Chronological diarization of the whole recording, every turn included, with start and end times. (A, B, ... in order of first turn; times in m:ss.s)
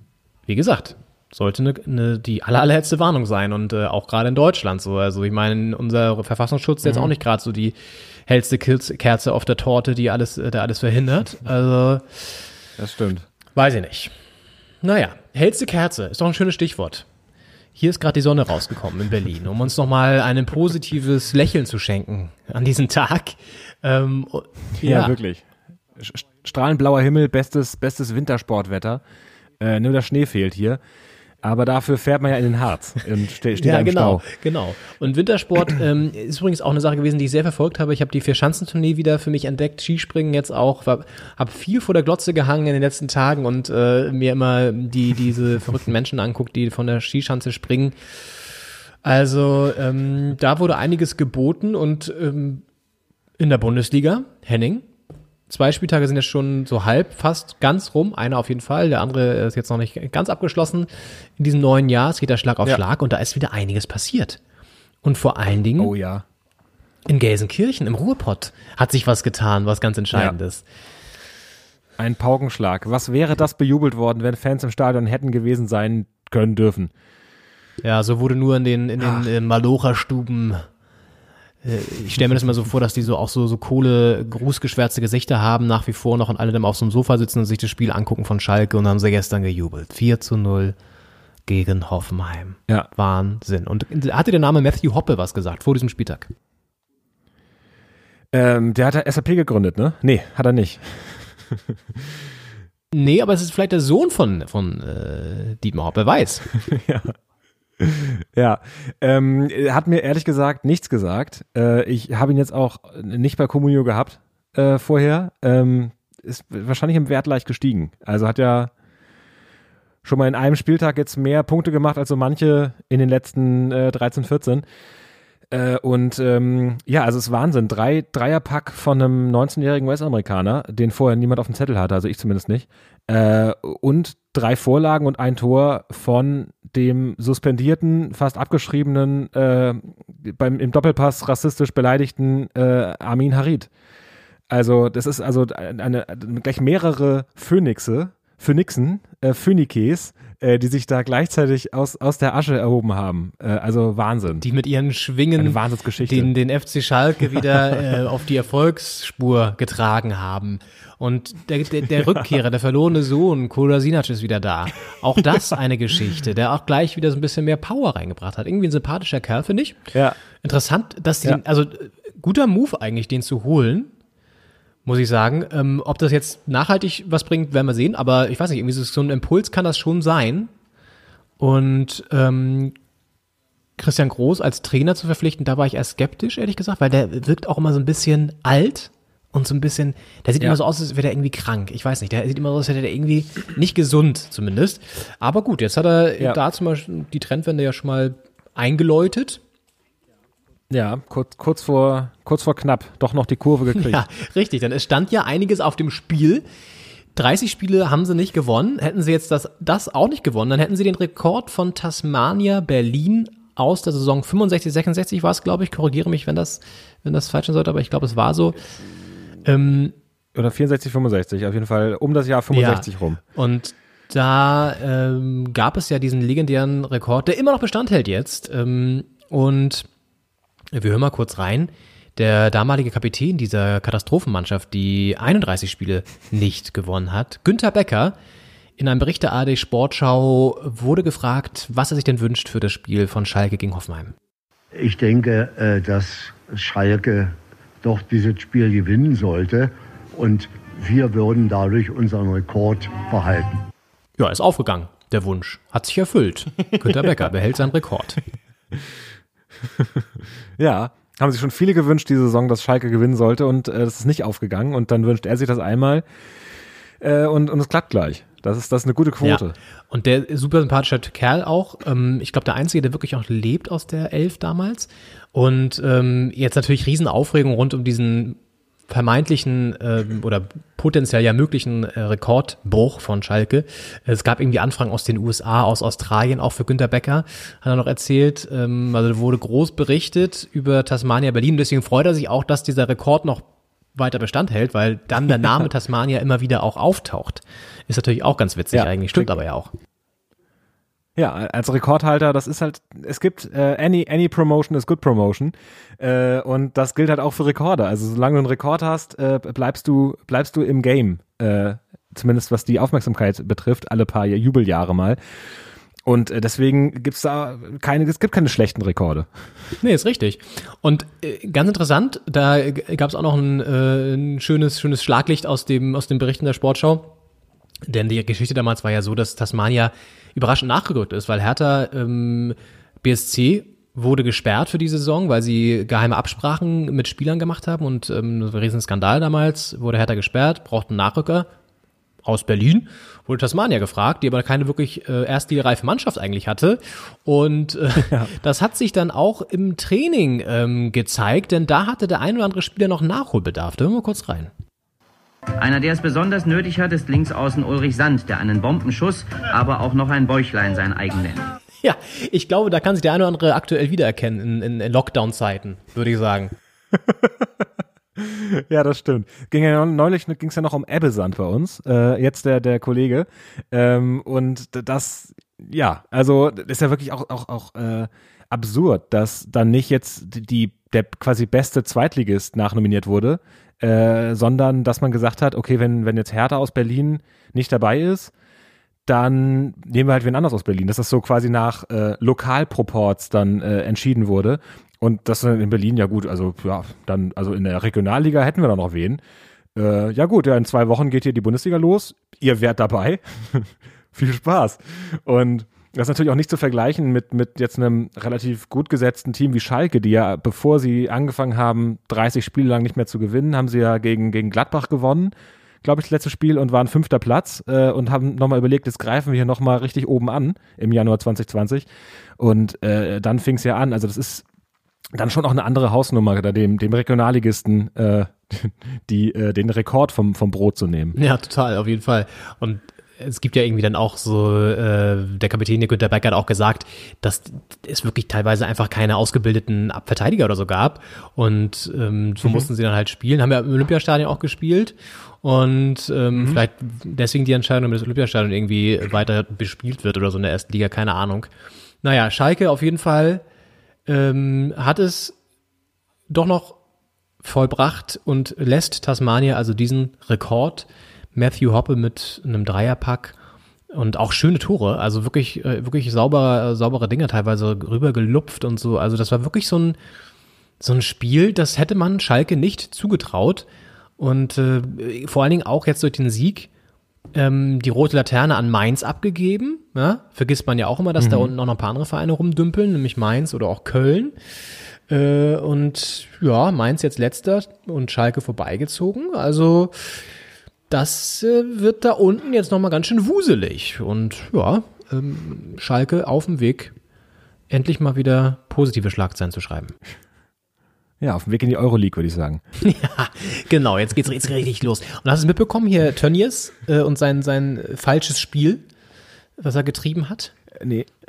0:00.5-0:12.4 A
0:06.8-0:07.1 B
0:12.8-0:13.3 B
0:13.6-0:14.2 A
0:14.8-0:17.1 A
0:17.8-0:25.2 A
0:24.8-0:29.0 B
0:29.6-0:30.8 B
0:31.4-0:34.2 B
0:33.6-0:48.0 A
0:49.0-0:52.6 A
0:53.4-0:54.9 A
0:55.5-1:04.4 A
1:05.0-1:05.9 A
1:05.8-1:06.2 B
1:07.1-1:10.7 A
1:12.0-1:16.9 B
1:17.8-1:20.7 A
1:19.0-1:19.3 B
1:21.6-1:30.8 A
1:31.5-1:36.3 A
1:38.3-1:42.1 B
1:42.9-1:46.5 A
1:46.6-1:47.2 B
1:47.8-1:58.7 B
2:00.0-2:04.6 B
2:05.5-2:23.7 B
2:24.5-2:34.4 B
2:34.4-2:49.9 A
2:35.4-2:36.3 B
2:50.4-2:53.9 A
2:54.9-3:00.5 A
3:01.4-3:02.8 A
3:03.8-3:19.4 A
3:20.7-3:24.0 B
3:23.7-3:26.4 A
3:27.2-3:38.7 A
3:39.4-3:40.0 A
3:40.4-3:43.2 B
3:42.5-3:49.9 A
3:50.7-3:58.2 A
3:58.8-4:04.1 A
4:04.8-4:13.6 C
4:14.2-4:18.2 A
4:16.9-4:17.2 B
4:19.8-4:26.0 B
4:27.0-4:29.6 B
4:29.2-4:59.7 A
4:58.7-4:59.3 B
5:01.2-5:15.2 B
5:16.0-5:19.3 B
5:19.8-5:27.1 A
5:27.9-5:41.5 A
5:42.2-5:54.5 A
5:48.0-5:48.3 B
5:55.6-6:01.5 D
6:01.8-6:06.5 A
6:07.0-6:07.6 B
6:08.2-6:28.3 B
6:29.1-6:39.2 B
6:39.8-7:01.9 B
7:02.4-7:04.4 B
7:05.1-7:11.2 B
7:11.2-7:31.5 A
7:26.4-7:26.6 B
7:32.0-7:33.4 A
7:34.1-7:35.4 A
7:36.3-7:36.8 A
7:37.4-7:43.4 A
7:43.9-7:50.0 A
7:50.8-7:56.7 A
7:57.3-8:04.4 A
8:01.2-8:01.5 B
8:05.1-8:10.2 A
8:10.9-8:17.0 A
8:17.7-8:20.0 A
8:21.2-8:22.6 B
8:22.8-8:28.9 A
8:29.6-8:30.5 A
8:30.8-8:31.1 B